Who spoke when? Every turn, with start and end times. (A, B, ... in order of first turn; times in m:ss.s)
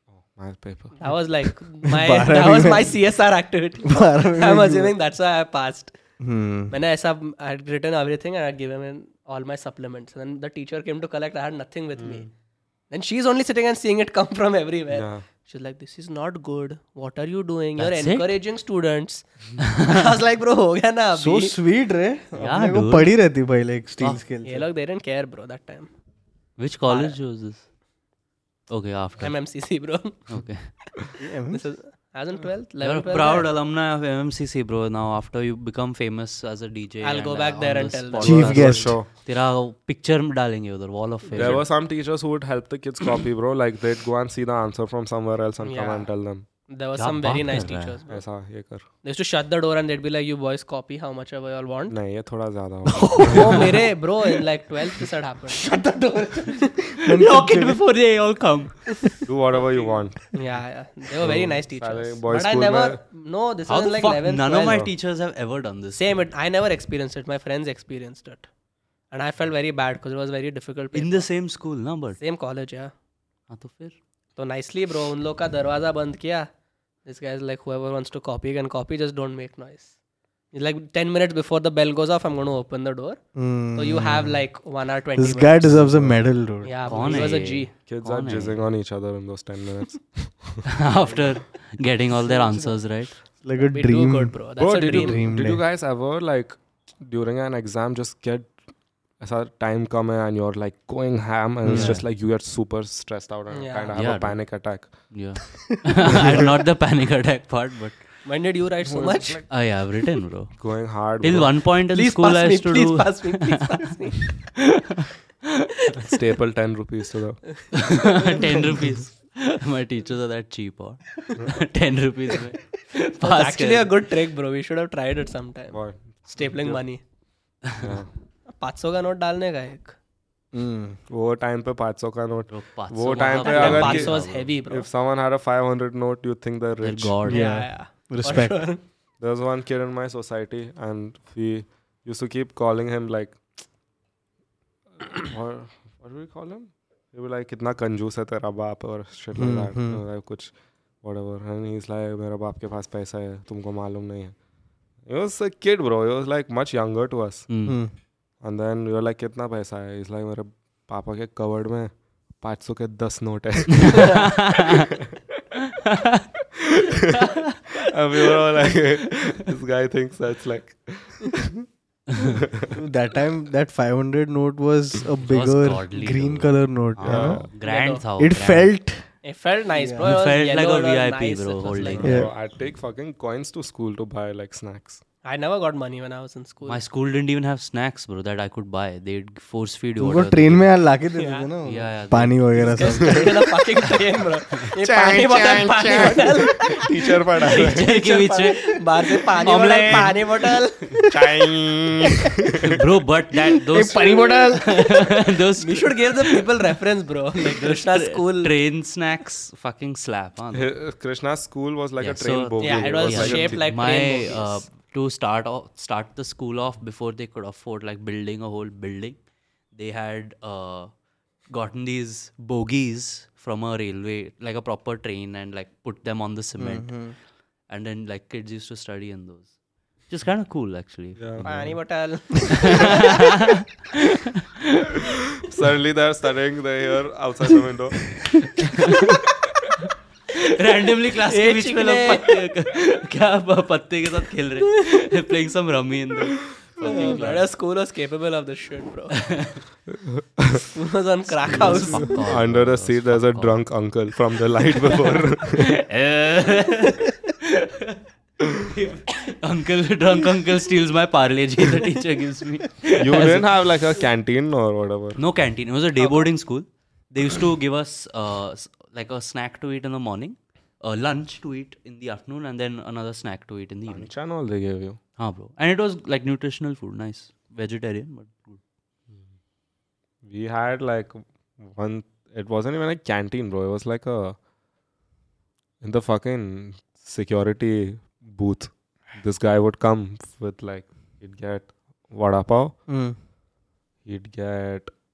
0:00.1-0:01.0 A
0:01.0-0:05.9 B
0:01.8-0:03.0 C
0:03.8-0:04.9 C
0:06.2-0:06.8 C
0:06.7-0:12.3 B
0:12.0-0:12.3 A
0:12.9-0:21.6 B
0:14.9-0:15.2 A
0:17.8-0:18.4 D
0:19.7-0:20.1 D
0:21.1-0:24.7 C
0:22.4-0:23.1 D
0:24.4-0:25.9 B
0:26.6-0:27.6 D
0:26.9-0:27.2 B
0:28.7-0:29.4 D
0:29.2-0:30.3 B
0:30.3-0:30.8 D
0:31.2-0:31.7 C
0:31.5-0:33.5 B
0:32.8-0:41.7 D
0:37.0-0:38.7 B
0:38.2-0:39.0 C
0:38.5-0:39.1 A
0:41.3-0:46.5 A
0:45.6-0:46.1 B
0:46.7-0:48.2 B
0:47.0-0:48.0 D
0:48.1-0:48.9 A
0:49.0-0:52.0 B
0:51.9-0:53.7 A
0:52.9-0:53.7 C
0:53.2-0:55.7 B
0:55.5-0:57.8 C
0:57.1-0:58.9 D
0:59.2-1:00.4 A
0:59.6-1:04.9 B
1:01.2-1:03.0 A
1:03.7-1:06.2 D
1:06.0-1:08.5 B
1:09.1-1:11.3 B
1:10.9-1:12.2 D
1:12.2-1:12.9 B
1:13.5-1:14.0 D
1:14.4-1:16.5 B
1:17.0-1:19.9 B
1:20.5-1:23.2 B
1:23.4-1:24.5 C
1:23.7-1:25.9 B
1:25.2-1:27.1 C
1:25.7-1:26.2 A
1:26.6-1:27.7 B
1:26.9-1:28.6 D
1:27.9-1:30.8 A
1:30.7-1:33.2 D
1:32.4-1:32.7 C
1:33.3-1:35.6 C
1:33.6-1:35.2 B
1:34.6-1:38.6 A
1:39.2-1:45.2 A
1:41.6-1:42.0 C
1:41.7-1:42.1 D
1:43.5-1:44.0 B
1:43.9-1:48.2 D
1:46.0-1:46.5 A
1:48.2-1:49.5 B
1:48.9-1:49.4 A
1:49.5-1:55.7 D
1:50.6-1:51.6 A
1:51.9-1:54.3 B
1:56.0-1:57.6 A
1:57.7-2:04.0 D
1:58.2-1:58.5 B
2:03.0-2:07.0 B
2:05.7-2:06.8 A
2:07.8-2:08.1 A
2:08.5-2:10.0 B
2:10.5-2:11.0 C
2:11.1-2:17.2 A
2:12.5-2:14.5 D
2:13.3-2:14.9 B
2:16.8-2:17.6 D
2:17.2-2:18.7 C
2:17.3-2:18.8 B
2:19.2-2:23.4 A
2:25.0-2:34.4 A
2:29.4-2:30.0 C
2:35.0-2:37.5 A
2:37.5-2:37.8 D
2:37.6-2:37.9 C
2:38.4-2:44.9 A
2:43.9-2:44.7 D
2:45.8-2:46.2 D
2:46.6-2:51.7 A
2:52.4-2:52.7 A
2:52.7-2:57.5 C
2:55.2-2:58.7 D
2:57.0-2:57.5 A
2:57.6-2:58.0 B
2:58.2-2:59.1 C
2:59.2-3:02.3 B
2:59.7-3:00.1 C
3:00.0-3:02.3 D
3:02.0-3:02.3 C
3:02.0-3:05.0 A
3:05.2-3:06.8 B
3:06.7-3:10.7 D
3:10.0-3:13.6 C
3:11.2-3:11.5 B
3:11.6-3:13.2 D
3:12.6-3:21.1 B
3:14.8-3:17.9 A
3:17.4-3:18.8 D
3:19.4-3:20.6 D
3:21.1-3:22.8 A
3:22.6-3:26.4 D
3:23.6-3:25.2 C
3:25.6-3:28.5 B
3:27.5-3:30.7 D
3:30.5-3:33.7 A
3:32.0-3:39.2 D
3:32.6-3:34.6 B
3:39.7-3:40.9 D
3:41.5-3:49.6 D
3:46.6-3:47.2 C
3:50.1-3:51.8 D
3:51.2-3:51.5 A
3:51.4-3:53.2 B
3:52.5-3:53.6 D
3:55.4-3:58.4 A
3:58.7-3:59.0 D
4:00.4-4:07.5 D
4:01.3-4:02.5 B
4:06.8-4:09.2 B
4:09.2-4:09.6 D
4:09.9-4:10.7 A
4:10.7-4:12.2 B
4:11.4-4:13.6 D
4:11.5-4:15.8 A
4:15.0-4:18.0 D
4:18.6-4:23.7 D
4:23.0-4:25.2 A
4:25.2-4:34.1 D
4:26.0-4:26.3 B
4:33.9-4:35.0 A
4:35.2-4:38.6 D
4:40.2-4:44.4 A
4:45.8-4:52.8 A
4:52.9-4:53.2 C
4:54.0-4:54.9 A